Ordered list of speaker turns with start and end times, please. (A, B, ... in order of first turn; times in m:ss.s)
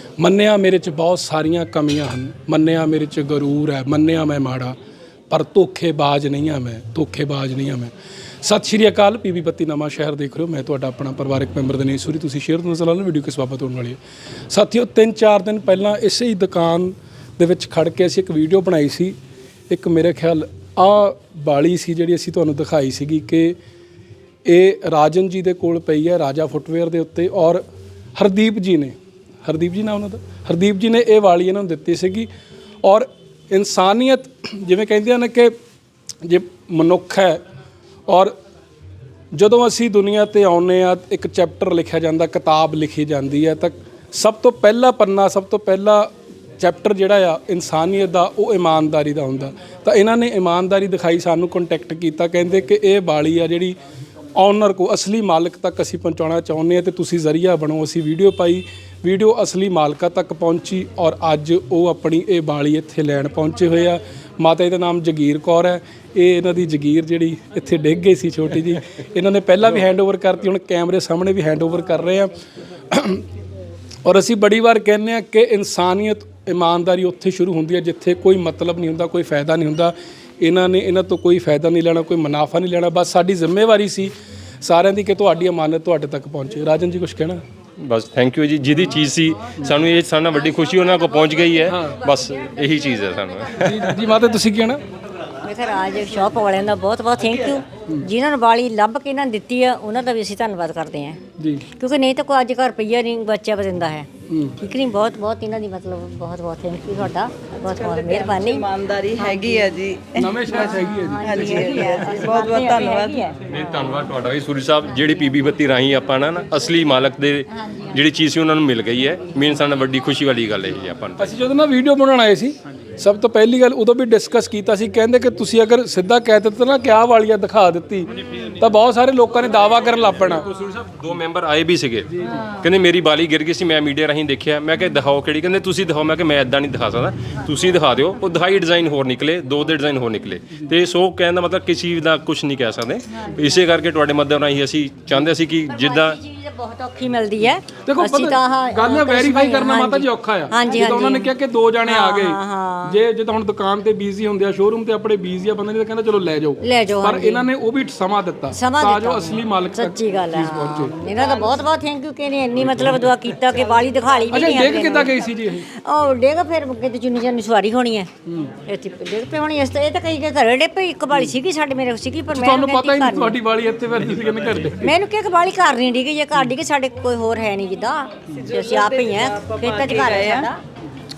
0:00.2-0:04.8 A
0:05.3-0:14.0 A
0:14.5-0:19.1 A
0:19.7-0:23.6 A
0:24.4-0:27.6 A
0:28.2-0:32.3 A
0:32.8-0:35.5 A
0:36.2-0:37.4 A
0:38.1-0:38.3 A
0:39.3-0:53.8 A
0:54.4-1:12.4 A
1:12.9-1:13.2 A
1:14.0-1:27.4 A
1:27.8-1:34.0 B
1:31.7-1:32.0 A
1:33.5-1:34.8 A
1:35.4-1:48.6 C
1:41.4-1:41.7 A
1:44.3-1:44.6 A
1:47.6-1:53.3 D
1:49.2-1:49.7 C
1:50.2-1:51.9 A
1:50.5-1:53.3 C
1:53.5-2:01.3 B
2:01.2-2:10.5 A
2:10.5-2:26.2 B
2:25.7-2:31.3 C
2:27.8-2:41.0 A
2:31.8-2:33.0 C
2:36.6-2:37.5 C
2:38.5-2:48.1 C
2:41.0-2:41.5 D
2:43.6-2:45.2 D
2:44.3-2:45.7 A
2:48.2-2:48.5 A
2:48.7-2:53.4 C
2:52.3-2:54.9 A
2:54.8-3:00.6 C
2:58.3-3:00.5 D